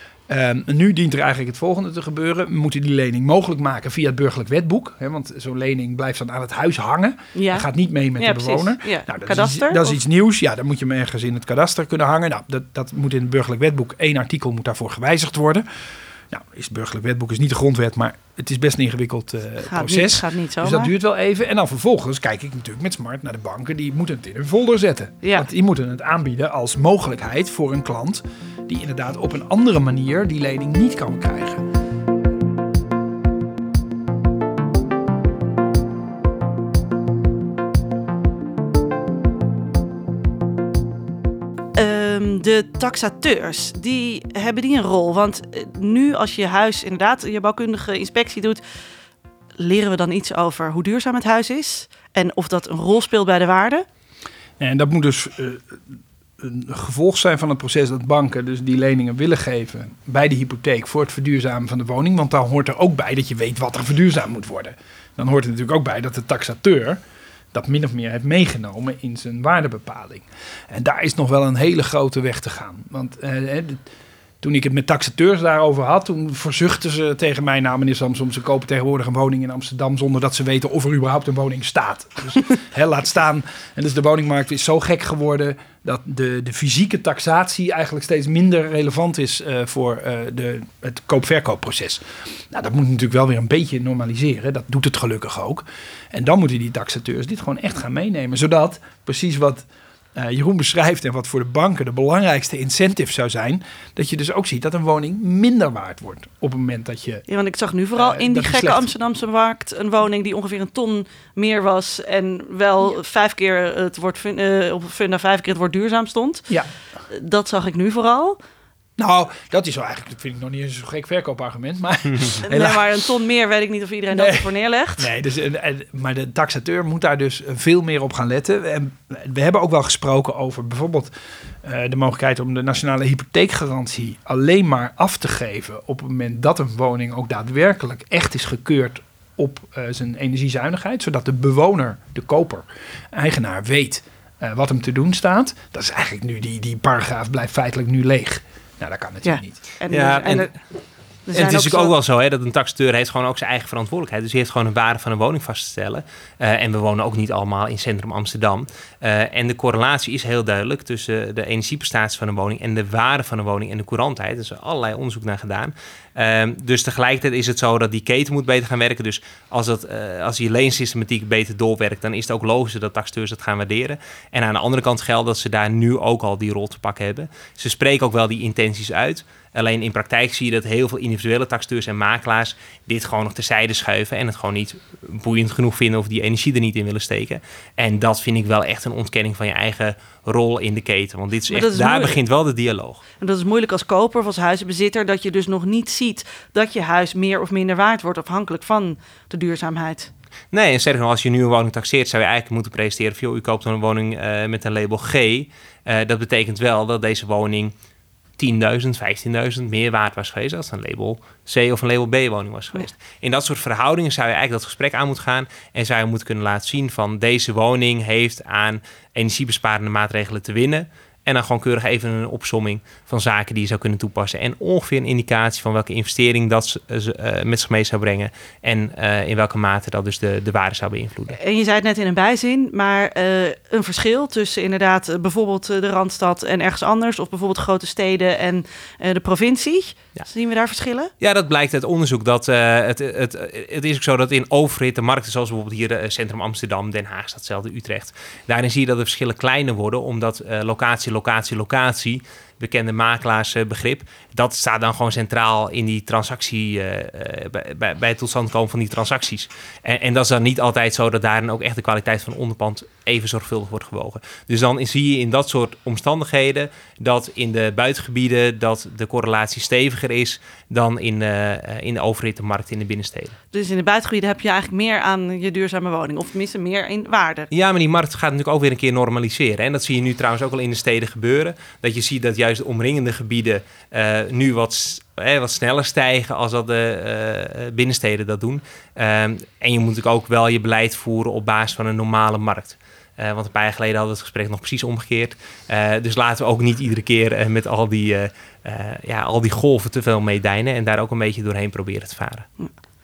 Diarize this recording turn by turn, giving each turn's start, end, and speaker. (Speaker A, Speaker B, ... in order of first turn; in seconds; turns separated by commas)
Speaker A: 0.3-15.7, Speaker B: 7.3-10.0, Speaker A: 16.3-31.6, Speaker B: 19.6-20.9, Speaker B: 25.2-25.5, Speaker B: 41.8-48.6, Speaker B: 49.6-53.9, Speaker A: 54.6-55.8, Speaker A: 56.4-67.0, Speaker A: 67.5-73.8, Speaker A: 74.4-107.2, Speaker B: 107.3-116.5, Speaker A: 108.0-108.9, Speaker B: 117.1-118.4, Speaker A: 119.0-123.0, Speaker B: 122.4-125.1, Speaker A: 124.1-131.1, Speaker A: 131.6-149.6, Speaker B: 149.2-150.5, Speaker C: 149.9-150.6, Speaker B: 151.3-151.9, Speaker C: 151.3-193.0, Speaker B: 191.5-192.2, Speaker B: 193.2-200.1, Speaker C: 200.5-207.7, Speaker C: 208.4-231.4, Speaker B: 231.3-241.1, Speaker C: 241.2-273.4, Speaker B: 273.5-277.5, Speaker C: 277.5-302.4